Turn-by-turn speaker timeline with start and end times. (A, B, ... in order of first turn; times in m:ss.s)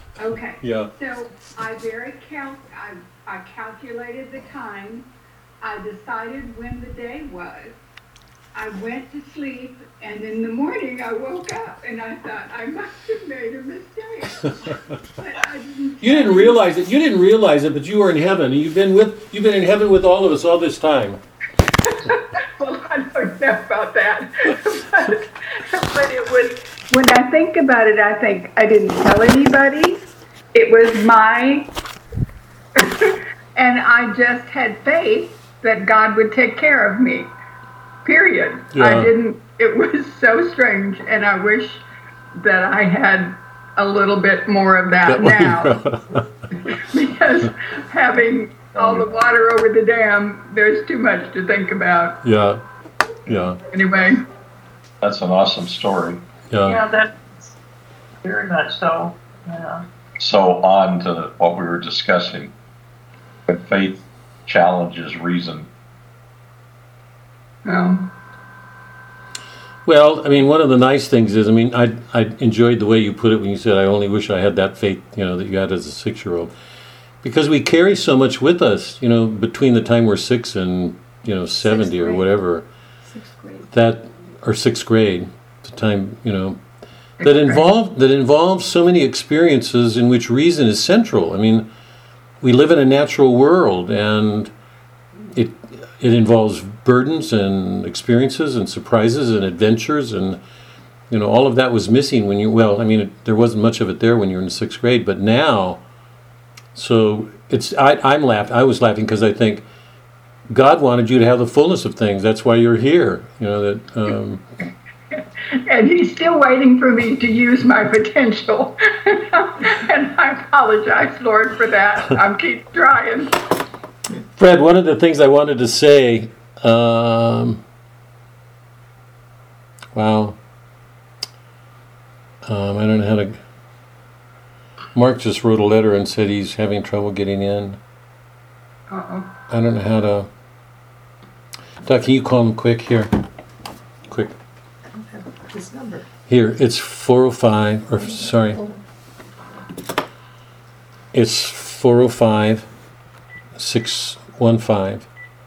0:00.2-0:05.1 A
0:00.6-0:00.9 B
0:05.6-0:07.8 A
0:08.5-0:16.6 A
0:16.0-0:21.2 B
0:21.8-0:30.0 A
0:30.5-0:31.7 A
0:32.8-0:37.3 A
0:38.0-0:41.8 A
0:38.7-0:39.1 B
0:42.3-0:45.7 A
0:45.1-0:46.2 B
0:46.6-0:52.2 A
0:52.2-0:52.6 B
0:53.2-0:53.6 B
0:53.7-0:54.2 A
0:55.0-0:56.2 C
0:56.5-0:56.8 B
0:56.6-0:57.2 D
0:58.2-0:59.8 D
1:00.2-1:02.5 C
1:03.5-1:05.7 C
1:07.6-1:08.1 A
1:09.8-1:16.5 B
1:17.2-1:22.7 B
1:21.6-1:22.3 E
1:23.0-1:23.7 E
1:23.7-1:26.6 B
1:27.2-1:31.7 B
1:32.4-1:34.5 B
1:35.3-1:40.4 B
1:41.1-1:45.8 B
1:46.8-1:49.7 B
1:50.5-1:54.4 B
1:55.1-2:03.4 A
2:04.4-2:07.6 B
2:10.0-2:10.4 B
2:12.4-2:13.4 B
2:15.0-2:17.8 B
2:18.9-2:19.3 A
2:19.5-2:20.3 B
2:21.8-2:23.2 B
2:24.1-2:24.3 B
2:24.9-2:26.1 E
2:26.3-2:28.6 B
2:28.0-2:28.8 E
2:31.1-2:32.7 B
2:33.6-2:35.1 B